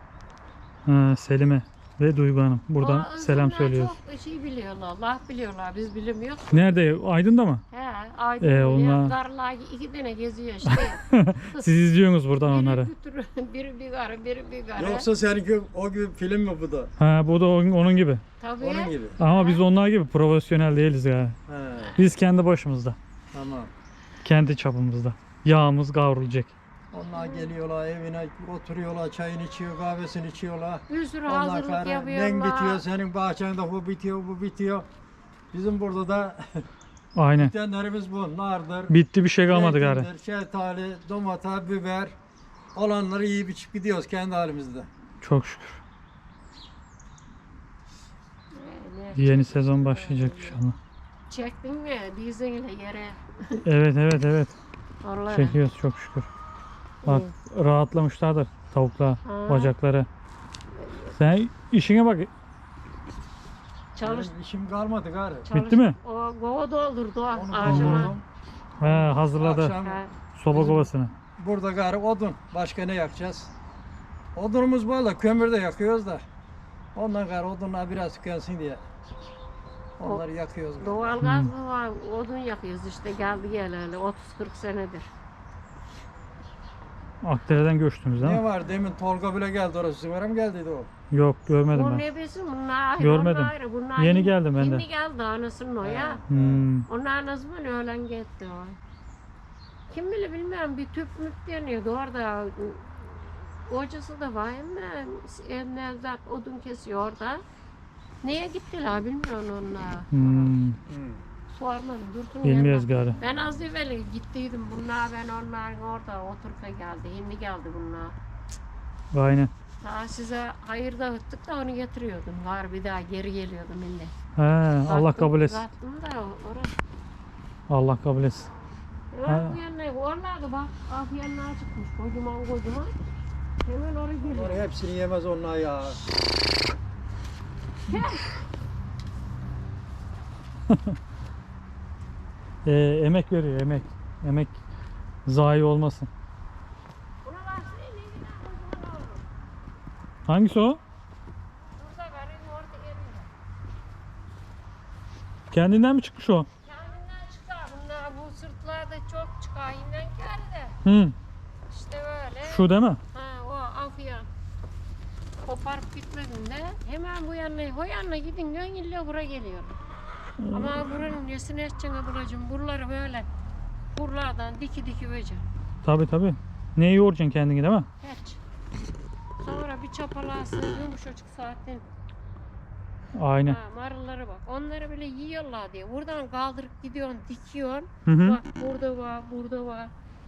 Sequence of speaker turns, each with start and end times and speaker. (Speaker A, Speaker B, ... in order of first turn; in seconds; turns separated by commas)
Speaker A: 0.8-4.0, Speaker B: 2.8-6.8, Speaker A: 6.5-7.6, Speaker B: 7.7-11.7, Speaker A: 8.4-9.2, Speaker A: 10.7-12.9, Speaker B: 12.4-15.1, Speaker C: 14.8-16.9, Speaker A: 17.0-18.2, Speaker B: 18.4-19.6, Speaker C: 18.6-19.2, Speaker A: 19.2-21.4, Speaker C: 21.5-22.0, Speaker A: 22.0-23.0, Speaker C: 23.3-23.7, Speaker A: 24.2-26.5, Speaker C: 26.9-34.9, Speaker B: 27.1-27.5, Speaker B: 30.9-32.8, Speaker C: 35.5-36.7, Speaker A: 37.2-37.5, Speaker C: 37.3-38.9, Speaker A: 38.9-40.1, Speaker C: 39.5-42.1, Speaker C: 42.8-44.9, Speaker A: 45.2-45.8, Speaker B: 48.5-50.6, Speaker A: 49.1-50.8, Speaker B: 51.3-53.6, Speaker A: 53.6-54.5, Speaker B: 55.0-55.6, Speaker A: 55.3-56.3, Speaker B: 57.0-57.3, Speaker A: 57.1-60.1, Speaker B: 59.2-59.7, Speaker B: 60.7-61.1, Speaker A: 61.2-62.3, Speaker B: 64.0-64.3, Speaker C: 64.0-65.5, Speaker B: 65.5-68.2, Speaker A: 65.5-66.0, Speaker C: 67.3-68.2, Speaker A: 67.6-68.1, Speaker A: 68.8-69.8, Speaker C: 68.8-73.5, Speaker B: 69.8-70.1, Speaker A: 70.3-71.1, Speaker C: 74.3-76.2, Speaker C: 77.0-78.8, Speaker C: 80.0-81.1, Speaker B: 80.8-85.1, Speaker A: 81.2-81.5, Speaker A: 87.2-88.4, Speaker C: 88.2-90.9, Speaker A: 91.1-92.0, Speaker B: 91.7-96.2, Speaker A: 93.0-94.8, Speaker C: 95.8-96.7, Speaker A: 96.3-96.9, Speaker B: 96.9-98.8, Speaker B: 99.9-107.4, Speaker B: 108.2-110.6, Speaker A: 110.1-110.8, Speaker C: 110.9-111.2, Speaker B: 111.5-118.2, Speaker A: 112.4-113.2, Speaker A: 119.1-119.5, Speaker B: 119.8-124.1, Speaker A: 124.4-125.6, Speaker B: 124.8-126.8, Speaker A: 127.7-128.5, Speaker B: 129.1-132.9, Speaker A: 129.3-129.6, Speaker B: 133.6-134.7, Speaker C: 134.2-136.0, Speaker B: 137.9-138.3, Speaker A: 137.9-138.3, Speaker A: 142.7-144.6, Speaker A: 145.3-146.1, Speaker B: 147.2-149.2, Speaker A: 150.3-150.8, Speaker B: 151.8-153.3, Speaker A: 155.5-156.5, Speaker B: 156.7-160.8, Speaker A: 160.8-161.2, Speaker B: 161.7-164.3, Speaker A: 162.4-163.0, Speaker B: 165.4-169.8, Speaker A: 170.4-170.8, Speaker B: 170.5-173.3, Speaker B: 173.9-175.4, Speaker A: 175.8-177.9, Speaker B: 178.0-178.4, Speaker B: 179.4-181.8, Speaker A: 183.2-183.6, Speaker B: 183.4-189.9, Speaker A: 188.1-188.4